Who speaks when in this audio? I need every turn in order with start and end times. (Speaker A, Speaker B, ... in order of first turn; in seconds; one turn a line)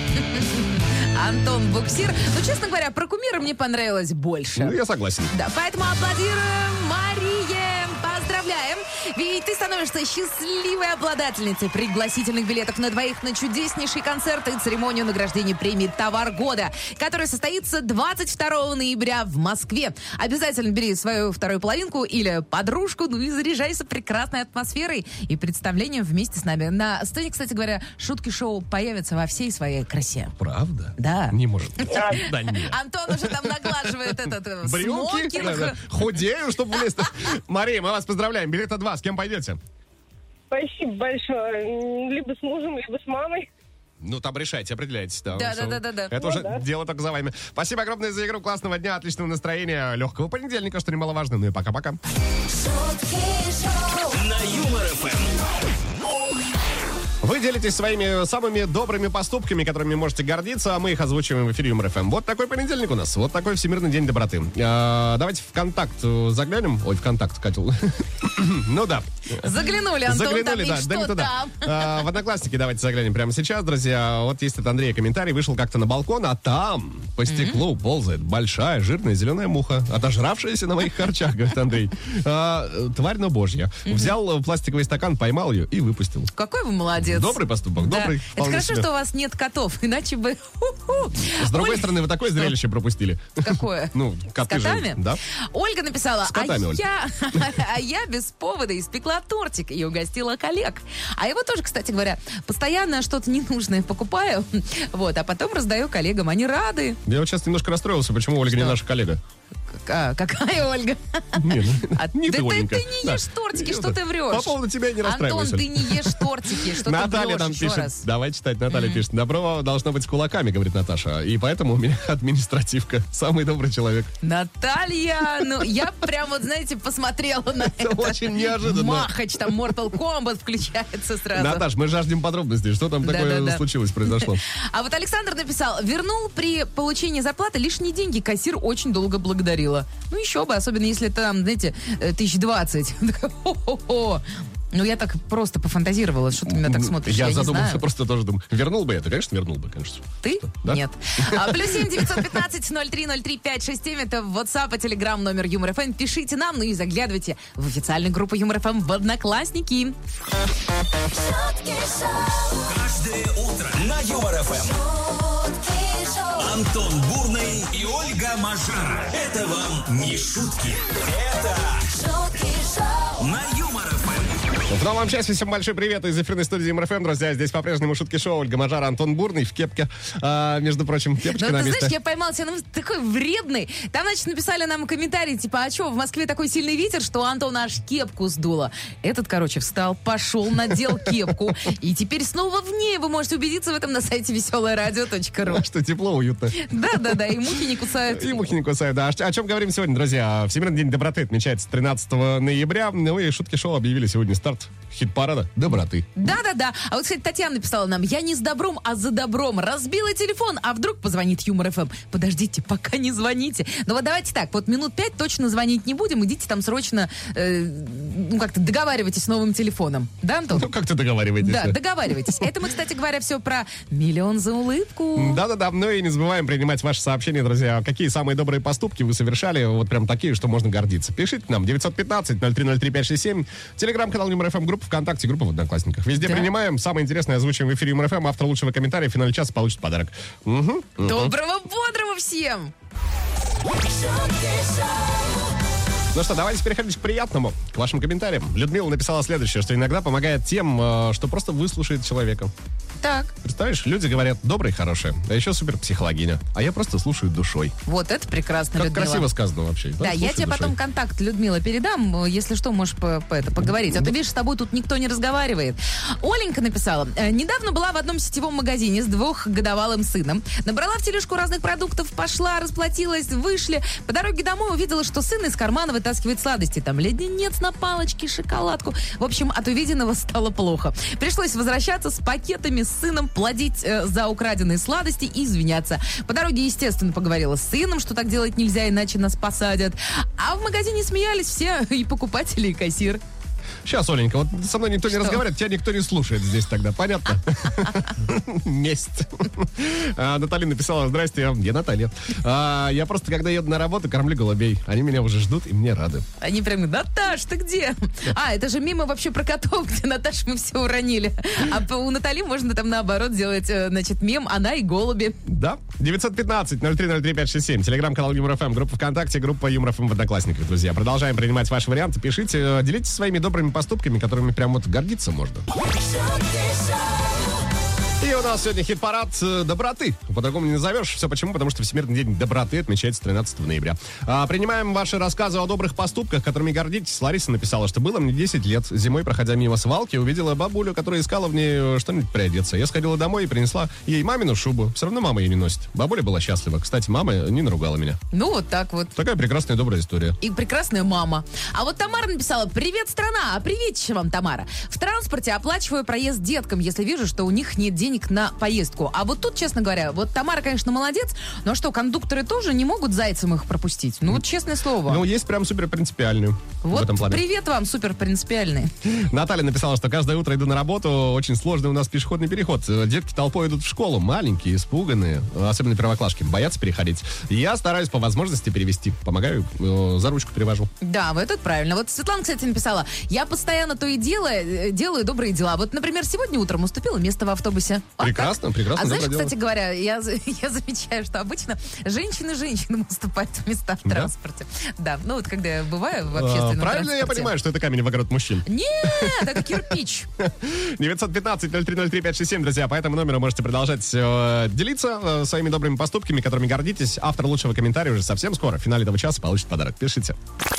Speaker A: 0.2-4.8
Speaker B: 4.5-5.3
Speaker A: 5.3-30.3
Speaker B: 30.4-39.6
Speaker A: 31.0-35.8
Speaker C: 31.9-32.2
Speaker C: 40.5-43.5
Speaker B: 44.0-52.0
Speaker A: 45.3-46.2
Speaker C: 46.2-46.6
Speaker D: 52.5-54.1
Speaker E: 54.1-55.4
Speaker B: 57.2-86.3
Speaker A: 69.3-72.1
Speaker A: 77.3-77.6
Speaker A: 83.8-84.1
Speaker A: 86.3-92.5
Speaker B: 87.0-88.9
Speaker B: 91.2-95.2
Speaker A: 93.4-107.0
Speaker B: 96.2-96.8
Speaker B: 107.0-109.2
Speaker A: 108.5-108.8
Speaker A: 109.7-118.0
Speaker B: 111.3-124.1
Speaker A: 118.7-119.0
Speaker A: 124.2-131.7
Speaker B: 127.6-129.7
Speaker B: 131.3-134.4
Speaker A: 133.0-147.8
Speaker B: 146.4-152.4
Speaker A: 150.2-159.9
Speaker D: 161.1-162.6
Speaker E: 162.6-164.8
Speaker D: 164.7-166.4
Speaker E: 166.3-171.9
Speaker D: 171.9-173.2
Speaker E: 173.2-174.4
Speaker B: 174.7-181.9
Speaker A: 181.2-195.7
Speaker B: 195.4-206.1
Speaker A: 196.6-198.5
Speaker A: 206.1-220.7
Speaker B: 220.5-222.5
Speaker A: 221.4-225.4
Speaker B: 225.2-241.3
Speaker A: 236.2-236.5
Speaker A: 241.0-242.7
Speaker D: 243.9-245.2
Speaker B: 246.1-252.5
Speaker A: 253.0-253.3
Speaker B: 253.4-257.7
Speaker A: 257.9-259.3
Speaker B: 258.7-260.7
Speaker A: 260.0-293.2
Speaker B: 263.6-264.1
Speaker B: 293.8-306.2
Speaker A: 295.1-295.4
Speaker A: 306.4-315.4
Speaker B: 315.5-325.7
Speaker D: 325.9-327.3
Speaker B: 328.2-348.2
Speaker A: 348.3-349.1
Speaker B: 349.1-350.4
Speaker A: 350.4-365.2
Speaker B: 365.0-367.4
Speaker A: 366.8-368.9
Speaker B: 369.0-380.9
Speaker A: 381.0-397.5
Speaker B: 388.2-389.5
Speaker B: 394.0-394.3
Speaker B: 396.3-410.4
Speaker A: 398.6-400.3